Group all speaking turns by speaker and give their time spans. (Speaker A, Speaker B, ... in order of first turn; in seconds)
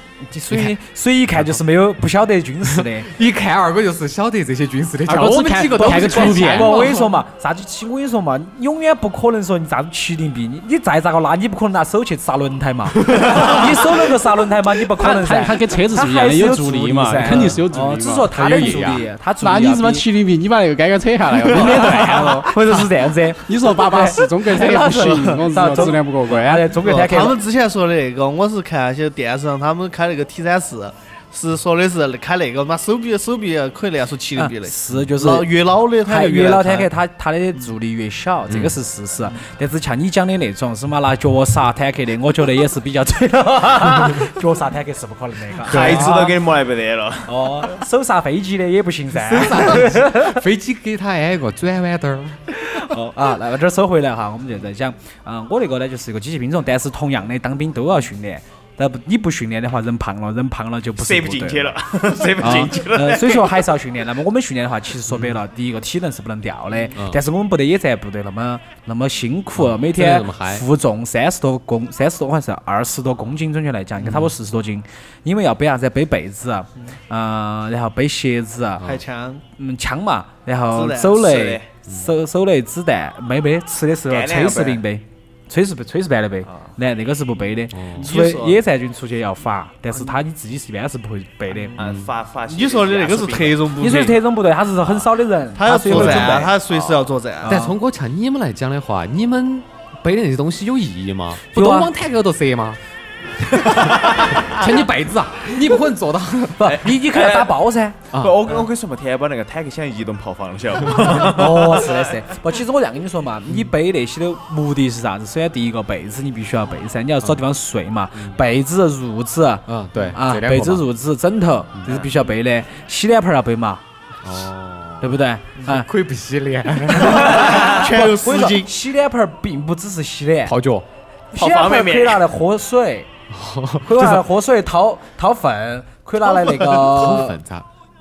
Speaker A: 0.2-3.1, 5.5-20.0, 21.4-27.4, 34.4-35.5, 36.0-46.4, 47.3-50.4, 52.5-61.8, 62.4-78.8, 79.6-91.8, 93.8-96.5, 97.4-97.7, 101.5-101.9, 106.6-108.0, 111.0-123.8, 125.0-125.9, 126.9-130.5, 131.3-133.1, 133.8-137.4
Speaker B: 0.5-0.8, 2.6-7.1, 13.0-13.6, 17.3-17.6, 18.3-19.1, 38.5-38.8, 45.7-46.2, 49.3-52.4, 62.4-62.7, 65.1-65.3, 66.9-67.2, 69.5-70.7, 74.0-74.3, 87.7-88.1, 91.8-92.1, 95.9-96.4, 97.5-102.8, 103.7-106.8, 108.1-108.5, 118.1-118.4, 119.7-120.9, 121.8-122.1, 124.2-127.5, 130.4-130.8, 133.3-134.2, 136.5-137.7
Speaker C: 5.1-7.0, 15.0-18.3, 19.4-22.8, 23.4-26.7
Speaker D: 24.5-25.9, 26.8-36.9, 78.8-79.4, 80.7-81.2, 88.0-88.6, 91.5-91.8, 92.5-94.2, 95.5-97.6, 127.1-128.7
Speaker E: 45.7-47.8, 61.0-63.6, 81.1-81.7, 84.1-84.8, 91.8-93.7, 96.2-97.1, 106.7-107.6, 108.1-111.9, 131.3-132.2